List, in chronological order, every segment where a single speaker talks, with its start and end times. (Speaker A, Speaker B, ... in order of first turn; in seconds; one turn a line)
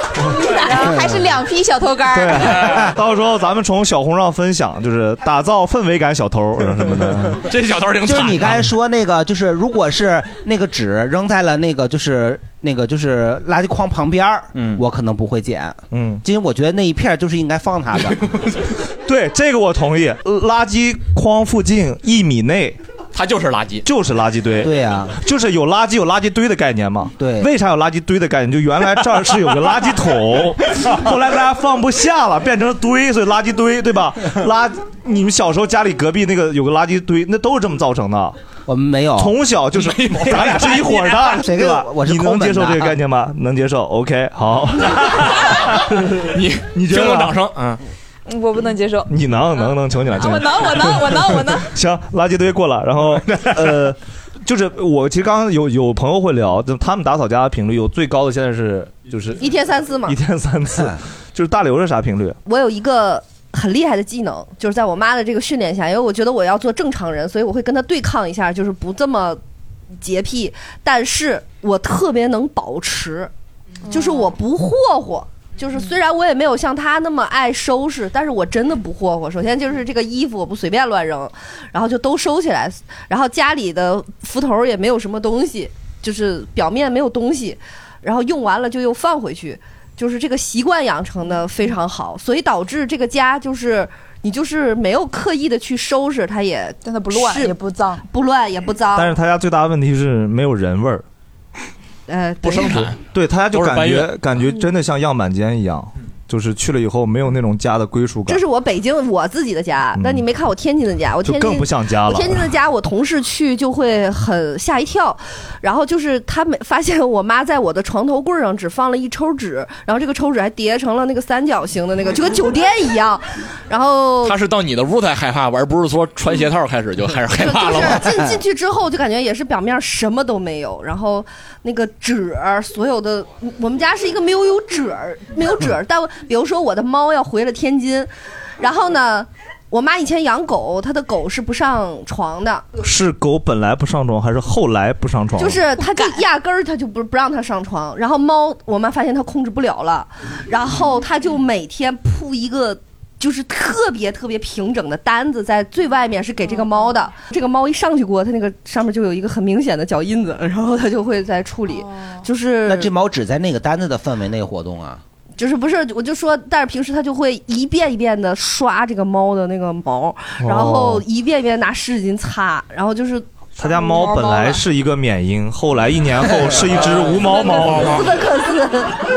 Speaker A: 0.3-2.7
Speaker B: 0.8-1.2
Speaker C: 2.1-7.4
Speaker B: 2.6-2.9
Speaker D: 7.4-8.6
Speaker B: 8.0-18.2
Speaker C: 15.9-16.2
Speaker C: 19.1-22.8
Speaker D: 23.1-23.9
Speaker C: 23.9-38.4
Speaker B: 24.6-25.2
Speaker B: 27.2-27.5
Speaker B: 38.7-39.4
Speaker C: 39.2-45.4
Speaker D: 39.8-40.8
Speaker B: 41.4-43.0
Speaker C: 45.9-46.2
Speaker D: 46.3-47.8
Speaker C: 46.7-47.4
Speaker A: 48.3-49.1
Speaker C: 49.1-59.5
Speaker A: 50.1-51.7
Speaker E: 59.4-60.2
Speaker C: 60.0-62.4
Speaker E: 62.5-69.4
Speaker E: 70.0-73.3
Speaker E: 73.8-99.1
Speaker A: 73.9-74.3
Speaker A: 96.8-98.1
Speaker C: 99.0-101.0
Speaker E: 102.1-102.9
Speaker D: 102.5-103.0
Speaker C: 102.5-108.4
Speaker D: 103.5-104.2
Speaker E: 108.3-124.4
Speaker C: 109.9-110.3
Speaker C: 111.2-112.5
Speaker D: 124.2-128.2
Speaker E: 127.3-142.7
Speaker B: 128.1-128.4
Speaker C: 142.8-145.6
Speaker E: 145.4-162.9
Speaker A: 145.8-146.2
Speaker B: 162.7-165.0
Speaker E: 165.4-173.3
Speaker C: 170.4-171.1
Speaker C: 173.6-178.1
Speaker A: 173.6-174.6
Speaker D: 176.8-178.1
Speaker E: 177.1-179.0